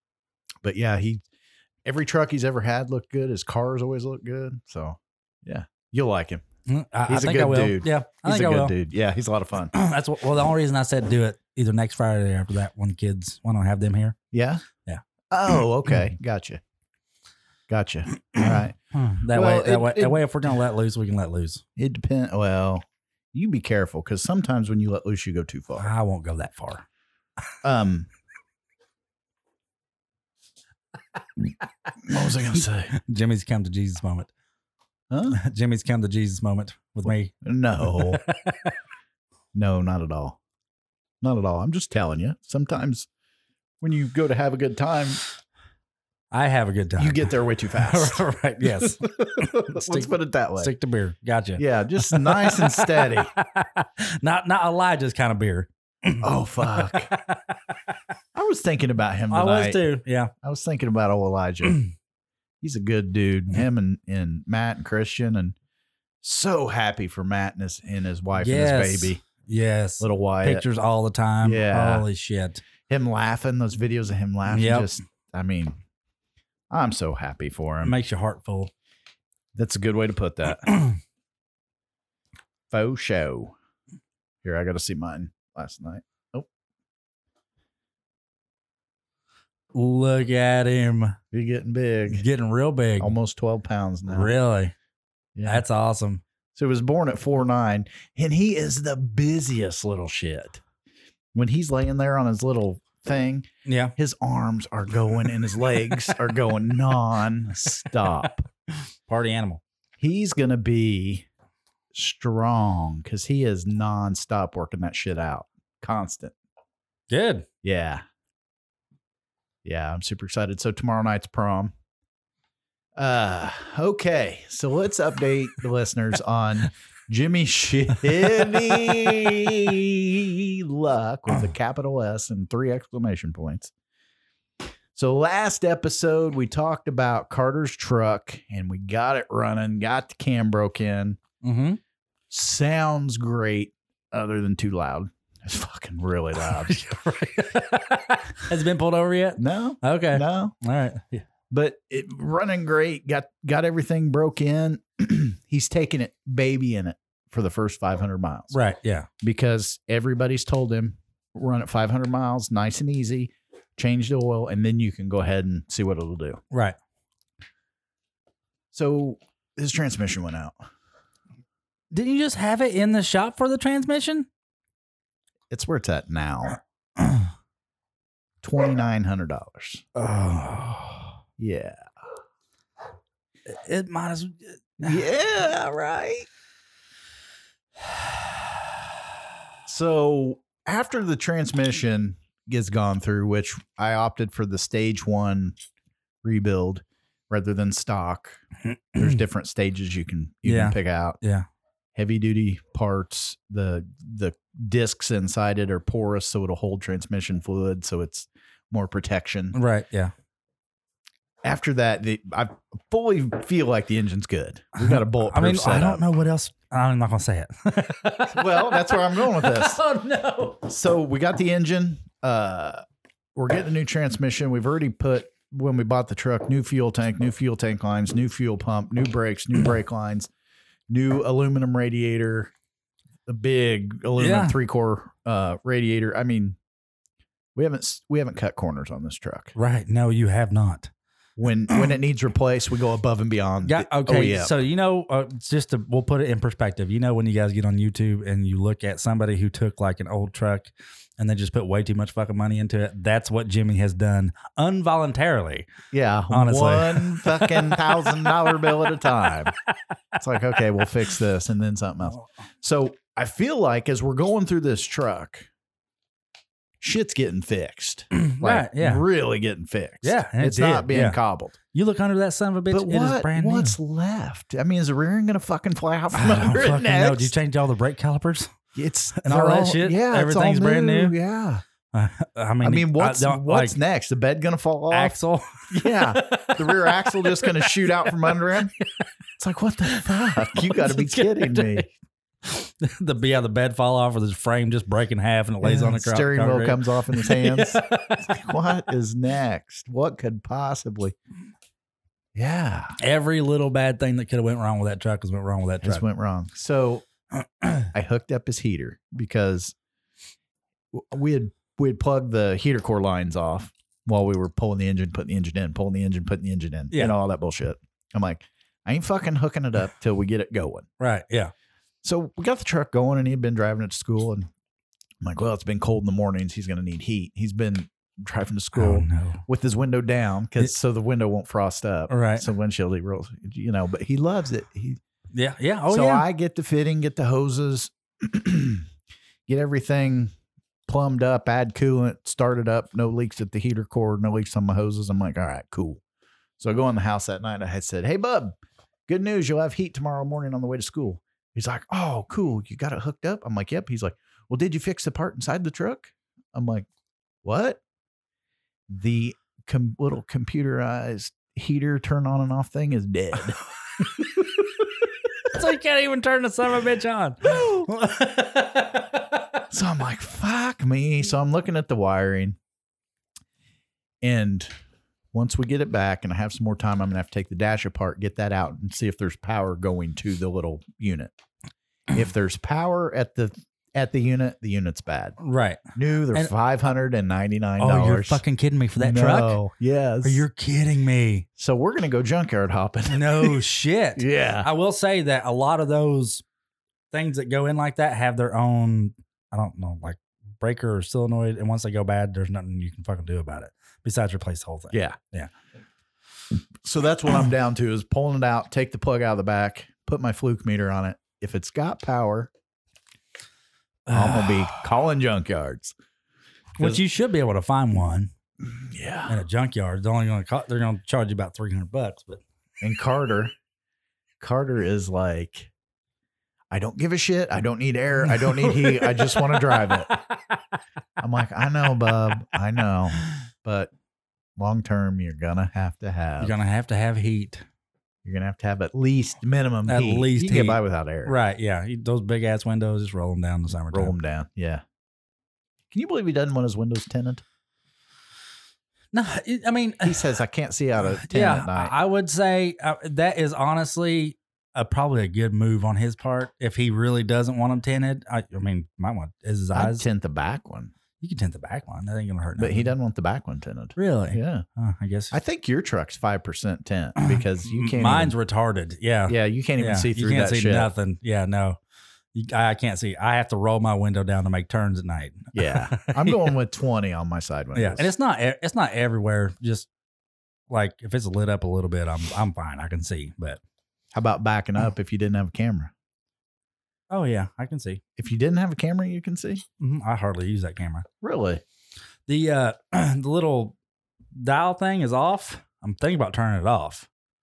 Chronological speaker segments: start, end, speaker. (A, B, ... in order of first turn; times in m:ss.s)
0:00.6-0:01.2 A
0:01.8-0:06.4 A
0:06.7-0:08.8 B
0:07.1-0:09.7 A
0:09.7-0:14.2 B
0:14.3-0:14.6 A
0:15.3-0:16.6 A
0:15.6-0:16.0 B
0:17.7-0:20.6 A
0:18.4-0:21.6 B
0:21.8-0:25.9 A
0:25.8-0:26.8 B
0:27.6-0:28.1 A
0:32.0-0:32.9 A
0:32.9-0:34.3 B
0:35.1-0:35.4 A
0:35.4-0:37.3 B
0:37.1-0:38.2 A
0:37.8-0:38.7 B
0:39.5-0:40.4 A
0:41.2-0:43.1 A
0:43.8-0:45.2 A
0:46.3-0:56.2 B
0:47.0-0:50.7 A
0:51.6-0:53.3 A
0:56.2-0:57.1 A
0:56.8-0:57.6 B
0:58.3-0:59.9 A
0:59.3-1:00.3 B
1:00.4-1:01.8 A
1:02.6-1:05.6 A
1:06.2-1:09.2 A
1:08.4-1:12.6 B
1:10.0-1:10.6 A
1:11.4-1:12.1 A
1:12.9-1:15.8 A
1:14.5-1:14.9 B
1:16.7-1:18.0 A
1:17.8-1:18.7 B
1:19.5-1:20.8 A
1:20.7-1:21.0 B
1:22.7-1:23.5 A
1:24.4-1:26.5 A
1:29.7-1:31.2 B
1:31.3-1:32.2 A
1:32.1-1:33.1 B
1:33.0-1:34.3 A
1:34.1-1:34.7 B
1:35.4-1:35.6 A
1:35.5-1:36.2 B
1:36.6-1:40.6 A
1:41.3-1:48.5 A
1:43.7-1:43.9 B
1:47.9-1:48.3 B
1:49.1-1:49.6 B
1:50.0-1:51.3 A
1:51.9-1:56.4 A
1:57.1-1:57.5 B
1:57.6-1:58.0 A
1:59.6-2:01.7 A
2:03.0-2:13.7 A
2:08.3-2:08.7 B
2:15.0-2:21.2 A
2:21.4-2:21.8 B
2:22.3-2:26.8 A
2:26.5-2:31.3 B
2:29.4-2:30.6 A
2:31.5-2:38.6 A
2:38.5-2:39.1 B
2:39.2-2:46.4 A
2:48.7-2:50.6 A
2:51.9-2:54.3 B
2:55.5-2:56.6 A
2:58.4-2:59.8 A
3:00.0-3:01.2 B
3:01.4-3:01.9 A
3:03.5-3:05.0 B
3:04.8-3:06.3 A
3:09.7-3:15.6 A
3:16.2-3:18.4 A
3:18.6-3:19.2 B
3:19.0-3:21.2 A
3:20.4-3:21.5 B
3:22.0-3:29.6 A
3:29.5-3:30.1 B
3:31.4-3:36.0 A
3:34.8-3:40.6 B
3:38.3-3:39.8 A
3:40.6-3:42.8 A
3:43.4-3:50.3 A
3:50.9-3:52.5 A
3:53.3-3:56.6 A
3:54.2-3:54.6 B
3:57.6-3:59.5 A
3:59.6-4:00.9 B
4:01.4-4:04.6 A
4:03.6-4:15.7 B
4:15.9-4:19.5 A
4:16.3-4:18.7 B
4:20.2-4:25.5 A
4:26.8-4:31.6 A
4:28.1-4:29.0 B
4:30.0-4:31.2 B
4:31.7-4:33.8 B
4:32.7-4:37.4 A
4:36.1-4:38.6 B
4:38.7-4:41.6 A
4:39.2-4:41.2 B
4:41.9-4:43.8 B
4:42.6-4:45.2 A
4:44.9-4:48.8 B
4:45.7-4:48.7 A
4:49.4-4:51.9 A
4:49.9-4:51.8 B
4:52.4-4:58.5 B
4:55.6-5:01.2 A
5:02.4-5:03.0 A
5:03.0-5:06.0 B
5:05.8-5:07.0 A
5:07.6-5:07.9 B
5:07.9-5:09.8 A
5:10.9-5:20.9 A
5:21.0-5:21.5 B
5:22.0-5:24.5 A
5:25.2-5:35.0 A
5:28.8-5:29.4 B
5:32.1-5:32.5 B
5:35.3-5:36.2 B
5:35.9-5:38.9 A
5:39.5-5:40.3 A
5:40.9-5:46.0 A
5:46.6-5:56.9 A
5:57.4-5:57.8 A
5:58.9-6:03.6 A
6:05.5-6:09.6 B
6:07.5-6:07.9 A
6:09.7-6:12.6 A
6:14.2-6:14.7 A
6:15.3-6:21.3 A
6:22.1-6:25.4 A
6:25.4-6:25.8 B
6:26.0-6:28.4 A
6:27.8-6:29.6 B
6:29.0-6:30.4 A
6:30.2-6:31.5 B
6:31.6-6:33.6 A
6:33.1-6:36.4 B
6:34.2-6:34.7 A
6:37.1-6:45.5 B
6:44.9-6:45.2 A
6:46.8-6:52.5 A
6:54.1-6:54.8 B
6:54.1-6:56.0 A
6:56.8-6:58.3 B
6:58.6-6:59.4 A
6:59.3-7:02.4 B
7:02.8-7:03.5 A
7:04.4-7:05.7 A
7:06.7-7:10.1 A
7:08.3-7:10.4 B
7:11.2-7:13.9 A
7:14.6-7:16.6 A
7:16.4-7:17.6 B
7:18.2-7:21.4 A
7:19.9-7:24.1 B
7:23.9-7:24.8 A
7:25.9-7:27.4 A
7:29.1-7:30.3 B
7:30.0-7:32.0 A
7:31.2-7:40.0 B
7:39.7-7:40.9 A
7:41.2-7:42.9 B
7:42.6-7:44.6 A
7:44.0-7:45.3 B
7:45.3-7:48.3 A
7:47.2-7:51.8 B
7:49.3-7:50.9 A
7:52.3-7:56.5 B
7:55.6-7:58.1 A
7:57.8-7:59.9 B
8:00.7-8:03.6 B
8:04.1-8:05.9 A
8:07.1-8:08.0 B
8:08.2-8:09.6 A
8:09.8-8:11.1 B
8:11.2-8:11.6 A
8:12.3-8:13.8 B
8:14.3-8:17.1 B